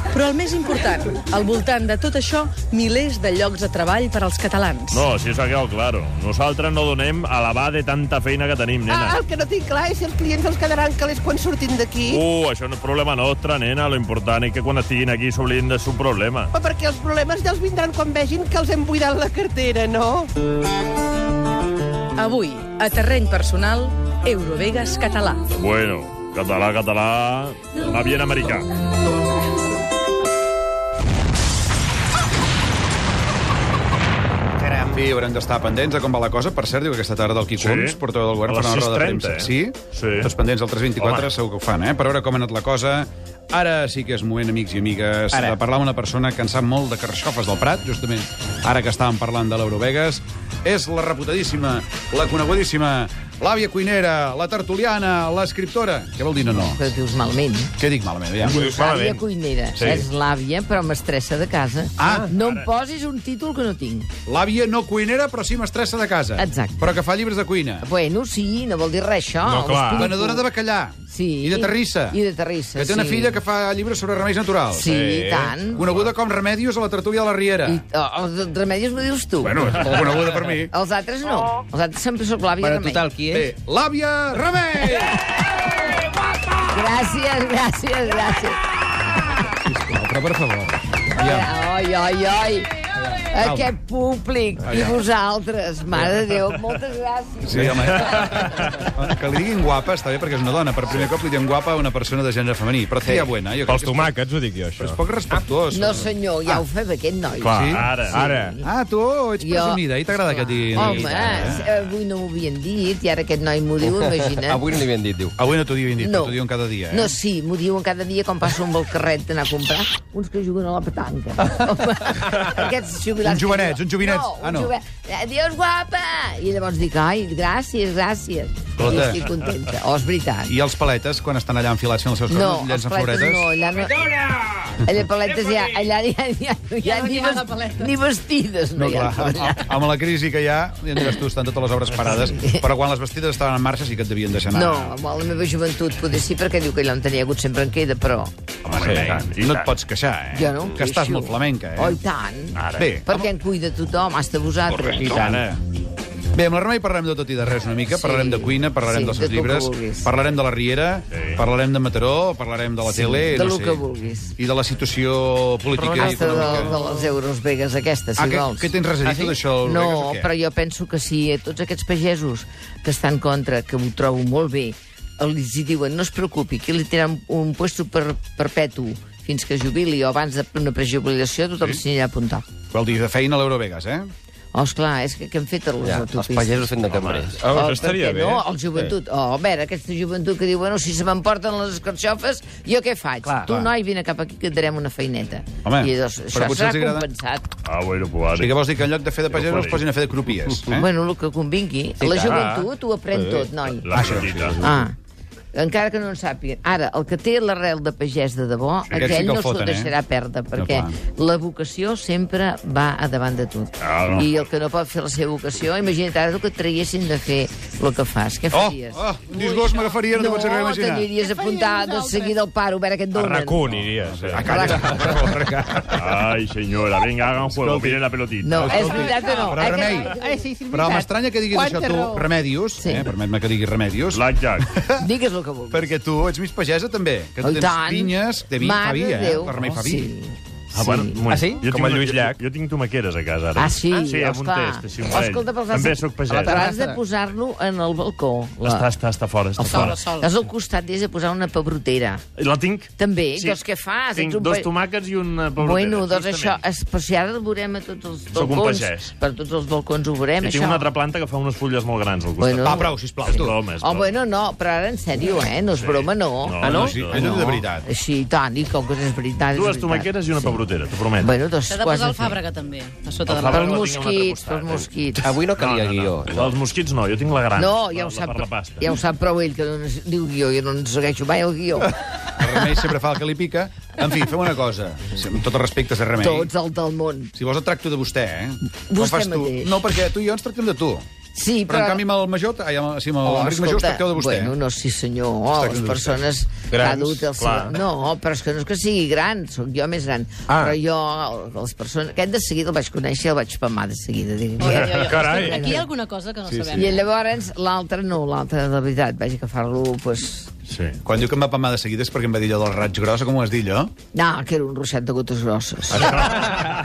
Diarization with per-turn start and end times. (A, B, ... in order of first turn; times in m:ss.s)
0:00.1-0:05.0 A
0:04.9-0:09.2 B
0:08.9-0:12.2 C
0:12.0-0:16.5 B
0:16.5-0:20.3 C
0:22.2-0:25.4 A
0:25.5-0:28.7 B
0:34.6-0:56.8 D
0:37.6-0:40.3 B
0:41.0-0:41.2 B
0:56.5-0:57.7 E
0:57.8-0:58.7 D
0:58.4-1:00.1 F
0:58.5-1:04.1 E
1:02.0-1:02.3 D
1:02.3-1:02.7 B
1:04.2-1:07.9 D
1:06.4-1:06.9 E
1:07.8-1:10.5 E
1:09.4-1:10.1 F
1:09.9-1:12.2 D
1:11.1-1:13.4 E
1:12.8-1:14.9 D
1:14.7-1:15.9 E
1:14.8-1:15.6 F
1:15.7-1:17.8 D
1:17.6-1:23.1 E
1:19.4-1:20.7 D
1:22.6-1:23.5 G
1:23.3-1:25.2 D
1:24.8-1:25.6 E
1:26.6-1:28.6 E
1:29.6-1:31.5 D
1:31.2-1:38.8 E
1:33.4-1:33.7 D
1:34.6-1:35.0 D
1:37.4-1:44.2 D
1:37.5-1:38.6 F
1:43.7-1:45.0 F
1:44.8-1:46.1 D
1:45.7-1:48.7 E
1:47.4-1:48.3 B
1:47.5-1:47.9 D
1:48.1-1:48.6 F
1:48.6-1:51.6 D
1:49.4-1:54.6 E
1:50.8-1:51.6 G
1:53.8-1:55.4 G
1:55.4-1:57.1 D
1:56.0-1:56.4 E
1:56.9-2:10.5 E
2:03.2-2:04.7 D
2:08.8-2:09.2 D
2:10.4-2:13.4 D
2:12.3-2:14.2 E
2:14.8-2:19.7 E
2:16.8-2:17.9 H
2:18.8-2:25.0 D
2:22.2-2:22.7 E
2:24.5-2:28.3 E
2:28.6-2:32.0 D
2:28.7-2:29.7 B
2:28.9-2:29.1 F
2:30.3-2:35.3 E
2:32.5-2:33.0 B
2:32.7-2:33.3 D
2:34.7-2:35.6 B
2:34.8-2:35.6 D
2:36.3-2:43.8 D
2:37.9-2:40.1 E
2:41.1-2:41.4 B
2:42.8-2:44.3 E
2:44.4-2:46.8 D
2:45.8-2:46.2 G
2:45.8-2:48.7 E
2:48.2-2:50.3 D
2:49.0-2:49.4 G
2:49.5-3:02.4 E
3:02.7-3:04.1 D
3:04.5-3:06.8 E
3:05.8-3:07.7 G
3:06.8-3:07.4 B
3:07.4-3:08.9 F
3:07.5-3:17.4 E
3:13.2-3:13.7 G
3:15.6-3:17.1 D
3:17.6-3:18.5 B
3:18.3-3:20.9 D
3:19.3-3:19.8 B
3:20.7-3:24.9 E
3:22.0-3:23.5 G
3:23.8-3:24.6 B
3:23.9-3:24.7 D
3:24.1-3:24.5 F
3:25.5-3:39.0 E
3:28.9-3:29.9 D
3:30.6-3:30.9 D
3:33.8-3:34.3 B
3:38.5-3:41.1 D
3:39.3-3:39.9 C
3:40.1-3:43.8 E
3:41.1-3:42.3 C
3:43.1-3:45.2 F
3:43.7-3:46.3 D
3:44.4-3:45.3 E
3:46.0-3:48.9 B
3:47.6-3:48.0 D
3:48.4-3:50.5 E
3:48.5-3:50.1 D
3:48.7-3:52.3 C
3:50.7-3:55.1 D
3:52.8-3:53.1 E
3:54.1-3:54.7 B
3:55.0-3:55.9 E
3:55.7-4:00.1 D
3:57.4-4:01.3 E
4:00.7-4:06.7 B
4:01.2-4:01.8 G
4:01.6-4:02.4 F
4:03.5-4:08.9 E
4:06.3-4:07.0 G
4:08.6-4:10.0 B
4:09.6-4:12.2 E
4:09.6-4:10.3 H
4:12.4-4:13.6 B
4:13.0-4:14.7 E
4:14.1-4:16.6 B
4:15.6-4:20.9 E
4:18.3-4:19.1 B
4:20.4-4:24.1 B
4:22.4-4:22.9 E
4:22.6-4:23.6 D
4:23.8-4:27.1 E
4:25.7-4:27.4 B
4:26.6-4:27.7 G
4:26.7-4:27.9 D
4:27.8-4:30.7 E
4:29.5-4:31.3 B
4:31.2-4:32.4 E
4:31.7-4:33.9 H
4:33.2-4:34.9 B
4:33.4-4:35.4 E
4:35.2-4:36.6 G
4:35.5-4:38.9 B
4:37.6-4:41.9 E
4:41.8-4:46.5 D
4:42.5-4:42.8 E
4:46.2-4:47.3 E
4:47.3-4:51.1 D
4:48.9-4:49.8 E
4:51.3-4:52.0 E
4:51.7-4:54.5 D
4:53.2-5:05.9 E
4:55.5-4:56.2 D
4:56.7-4:57.3 G
4:57.4-4:57.8 B
5:00.5-5:00.8 G
5:04.6-5:07.0 H
5:04.6-5:05.1 B
5:04.9-5:05.5 F
5:06.4-5:06.9 F
5:06.7-5:10.5 E
5:10.7-5:11.0 B
5:11.0-5:13.9 D
5:14.1-5:16.7 E